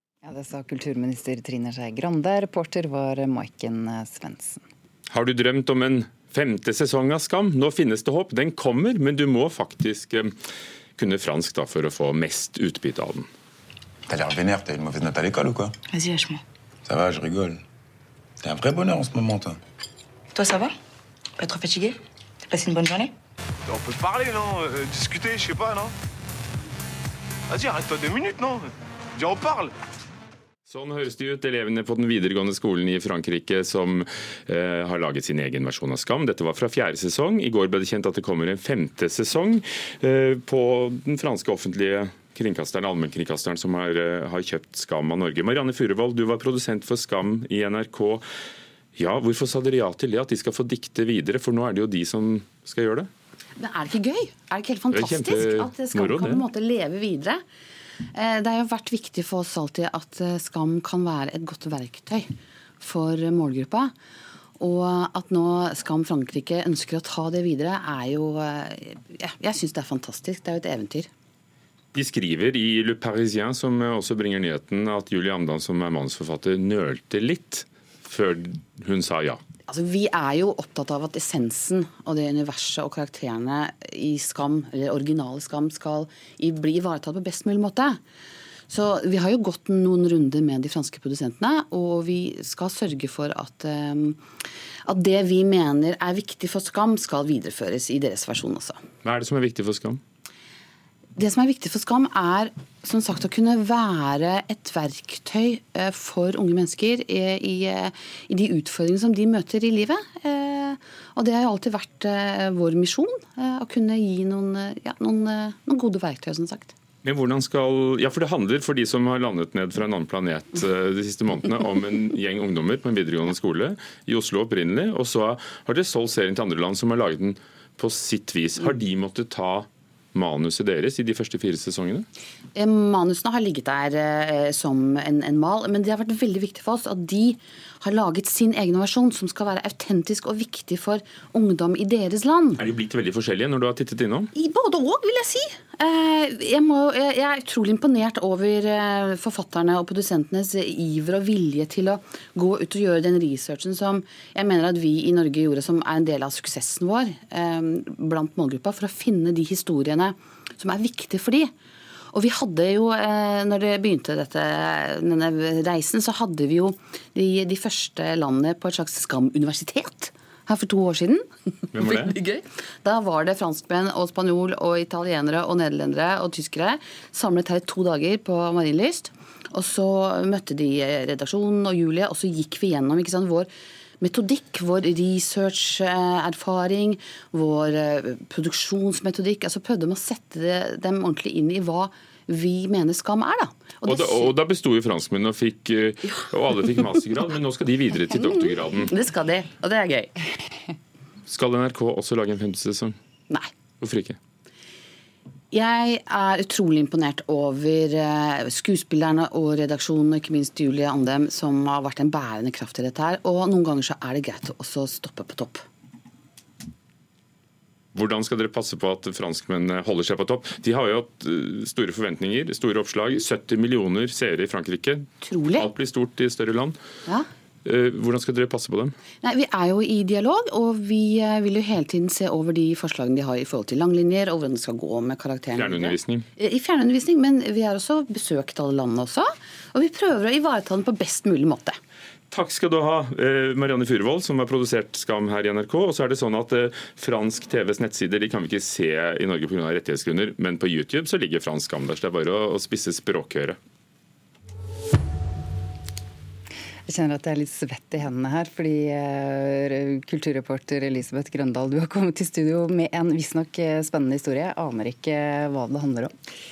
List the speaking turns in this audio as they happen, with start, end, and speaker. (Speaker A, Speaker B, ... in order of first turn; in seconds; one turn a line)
Speaker A: 0.2-4.7
Speaker B: 5.1-10.3
Speaker B: 11.0-13.3
Speaker C: 14.1-15.7
Speaker D: 15.9-16.4
Speaker C: 16.9-17.6
Speaker C: 18.4-19.5
Speaker D: 20.3-20.7
Speaker D: 21.4-23.1
Speaker E: 23.7-25.9
Speaker E: 27.5-29.7
Speaker B: 30.7-48.2
Speaker B: 49.0-53.1
Speaker F: 53.6-57.4
Speaker B: 54.9-56.4
Speaker F: 58.1-62.3
Speaker F: 62.8-63.9
Speaker F: 64.6-71.1
Speaker B: 71.9-79.4
Speaker F: 79.7-88.0
Speaker F: 88.7-94.2
Speaker F: 94.8-98.8
Speaker B: 99.0-100.0
Speaker F: 101.2-116.7
Speaker B: 117.0-132.1
Speaker F: 132.5-142.6
Speaker B: 142.6-144.3
Speaker F: 144.3-161.5
Speaker F: 162.1-183.5
Speaker B: 171.7-172.1
Speaker F: 184.0-194.3
Speaker B: 193.8-198.9
Speaker F: 198.1-200.1
Speaker B: 201.3-202.9
Speaker B: 203.8-204.2
Speaker F: 205.5-215.6
Speaker B: 217.9-226.8
Speaker F: 225.2-225.7
Speaker B: 227.6-228.9
Speaker F: 229.2-241.8
Speaker B: 235.5-236.2
Speaker B: 242.3-253.6
Speaker A: 256.9-266.1